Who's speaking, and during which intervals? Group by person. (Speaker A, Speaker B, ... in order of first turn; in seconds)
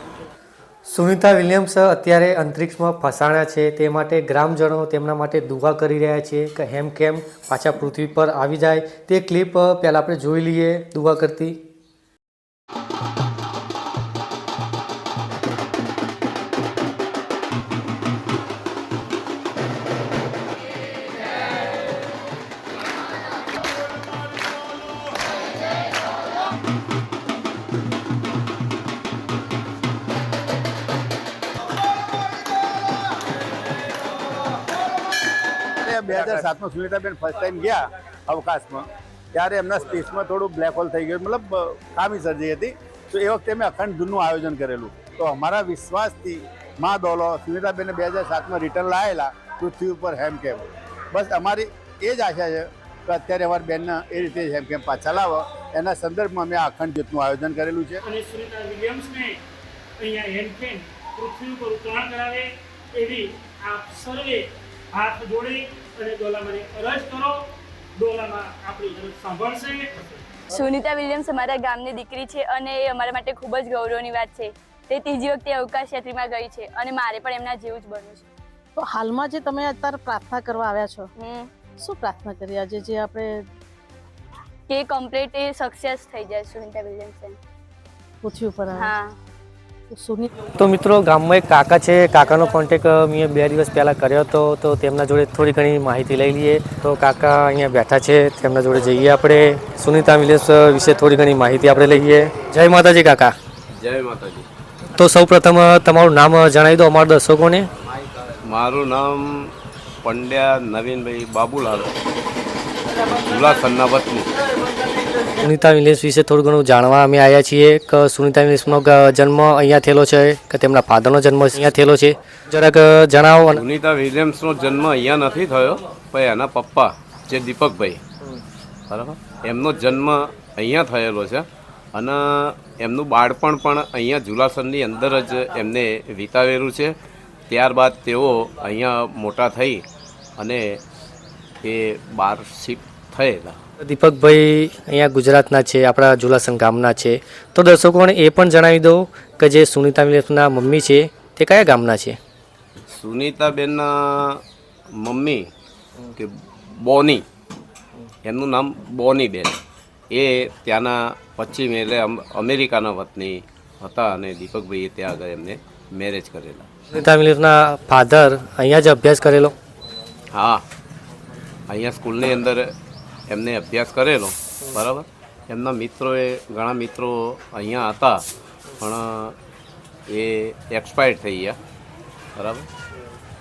Speaker A: 0.8-11.6, 90.6-103.3, 104.9-107.7, 115.3-123.6, 143.8-152.2, 166.9-169.5
Speaker B: 35.8-58.0
Speaker C: 58.0-59.4, 60.0-67.4, 68.0-70.2
Speaker D: 70.5-78.3, 81.2-81.5, 84.7-87.3, 88.7-89.2
Speaker E: 78.8-81.1, 81.8-83.4, 88.2-88.8, 89.9-90.3
Speaker F: 103.7-104.5, 108.4-111.9, 113.0-114.3, 123.5-128.0, 128.9-136.9, 137.5-139.8, 140.4-140.6, 141.6-143.6, 152.9-155.5, 156.1-157.2, 158.2-159.6, 160.1-166.7, 170.3-170.6, 171.7-172.7, 173.3-178.2, 178.8-179.3, 180.1-181.6, 182.3-182.7